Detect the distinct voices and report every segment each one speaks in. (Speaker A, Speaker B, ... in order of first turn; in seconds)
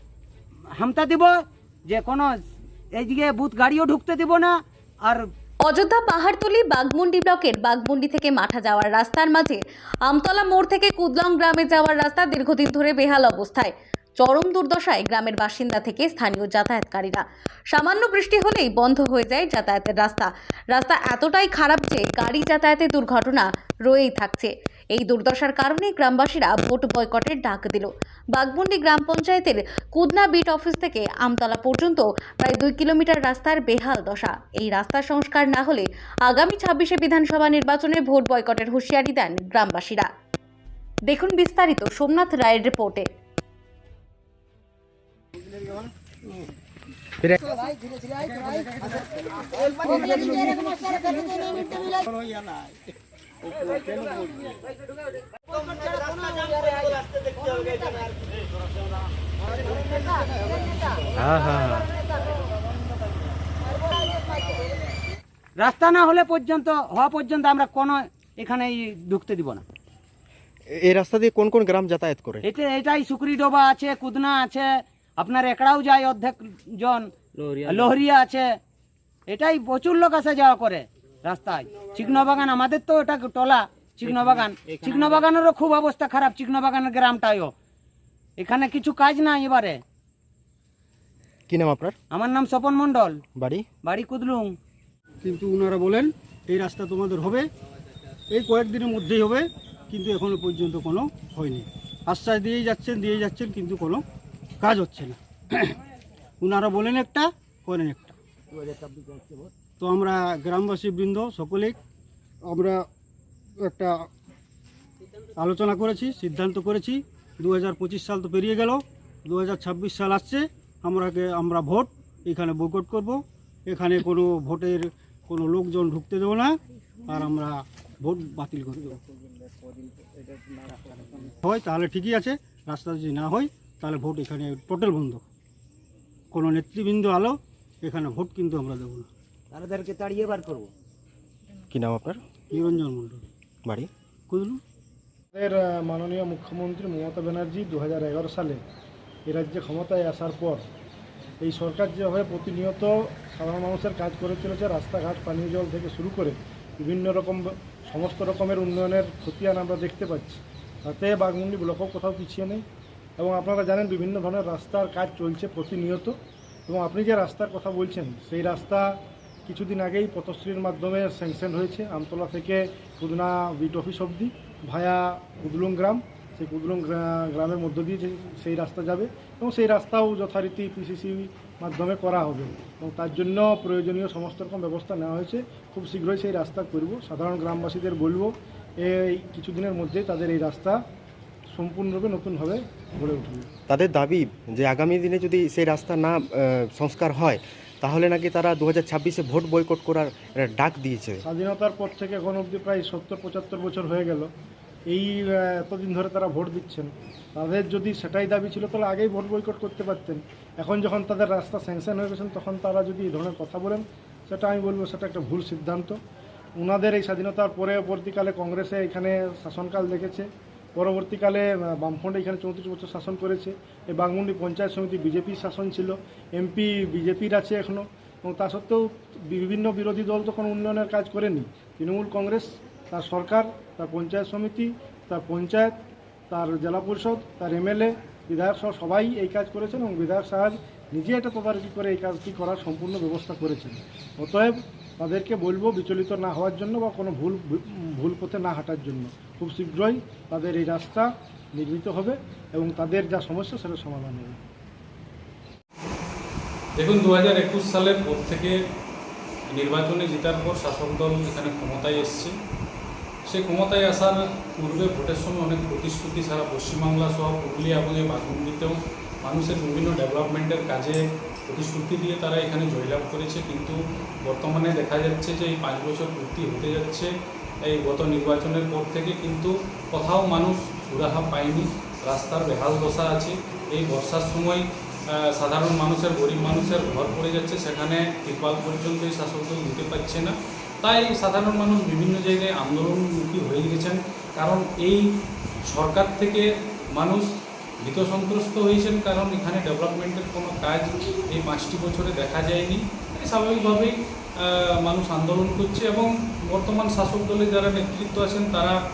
Speaker A: 0.8-2.3, 2.9-5.2, 55.4-58.0, 59.5-60.8, 65.6-69.6, 72.4-78.5, 79.3-87.5, 88.4-89.8, 92.1-93.2, 93.8-94.5, 139.5-140.7
Speaker B: 5.6-40.1, 41.1-43.1
Speaker C: 48.4-48.9, 50.1-50.5, 95.2-97.5, 98.3-104.0, 104.6-105.8, 106.4-108.2, 109.8-111.8, 112.4-112.8, 113.6-114.1, 115.4-129.0, 131.2-135.2, 136.3-139.1, 142.5-143.2, 144.3-144.6
Speaker D: 61.2-61.9, 70.7-72.4, 91.5-91.9, 93.3-93.7, 141.7-142.2, 193.7-201.2
Speaker E: 145.3-148.6, 149.2-150.6, 151.4-162.6, 163.2-166.2, 166.7-190.8, 191.5-193.5, 201.2-204.3, 204.9-216.0, 216.6-235.8, 236.3-254.4
Speaker F: 256.8-258.6, 259.5-262.3, 263.2-277.1, 277.7-295.1, 295.7-308.8